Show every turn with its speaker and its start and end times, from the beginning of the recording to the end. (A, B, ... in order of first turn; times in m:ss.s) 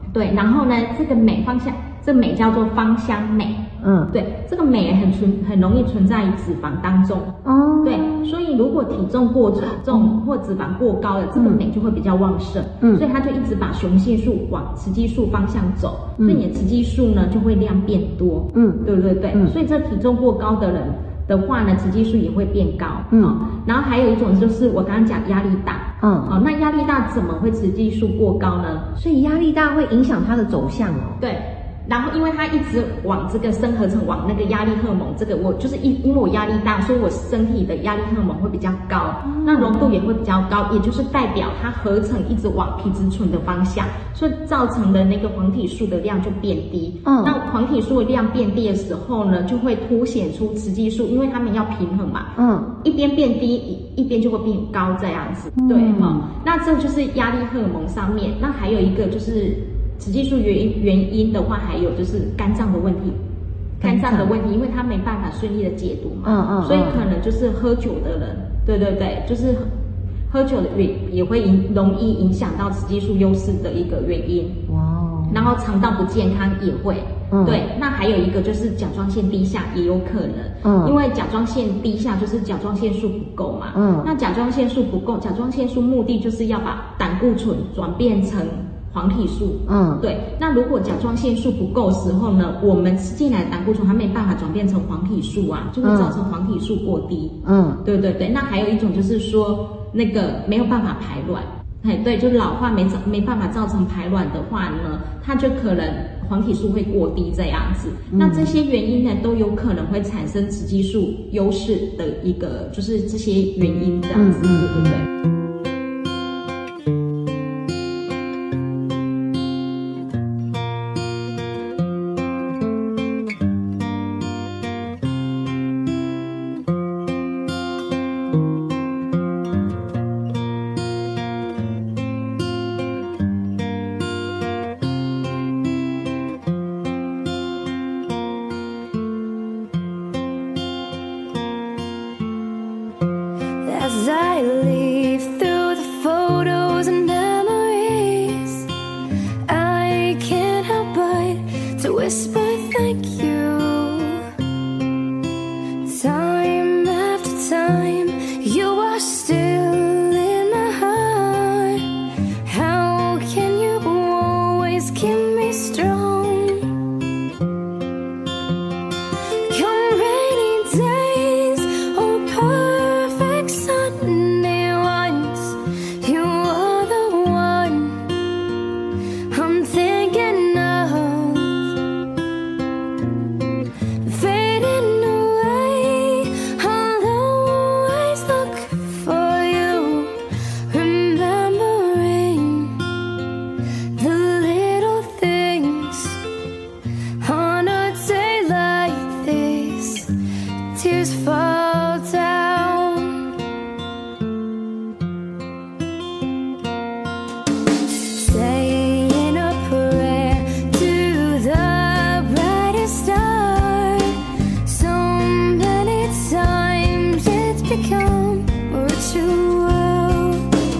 0:00.1-0:07.3 A
0:03.8-0:04.1 B
0:07.4-0:08.3 B
0:07.8-0:28.9 A
0:09.8-0:10.1 B
0:11.4-0:11.6 B
0:18.5-0:19.5 B
0:26.0-0:26.4 B
0:29.0-0:31.2 B
0:31.2-0:52.3 A
0:39.2-0:39.8 B
0:47.0-0:47.4 B
0:52.4-0:52.7 B
0:52.8-1:03.2 A
0:55.6-0:56.3 B
1:03.8-1:04.3 B
1:03.8-1:09.7 A
1:06.2-1:07.1 B
1:10.3-1:14.6 A
1:14.7-1:15.4 B
1:15.3-1:55.1 A
1:17.3-1:17.6 B
1:20.6-1:21.0 B
1:23.7-1:24.1 B
1:29.7-1:30.0 B
1:35.8-1:36.2 B
1:37.4-1:37.8 B
1:48.1-1:48.5 B
1:54.1-1:55.0 B
2:23.6-2:28.7 C
2:29.4-2:34.3 C
2:35.8-2:46.8 C
2:49.5-2:58.2 C
2:59.3-3:01.8 C
3:04.0-3:12.9 C
3:14.0-3:16.2 C
3:17.2-3:20.1 C
3:20.7-3:23.3 C
3:28.1-3:40.5 C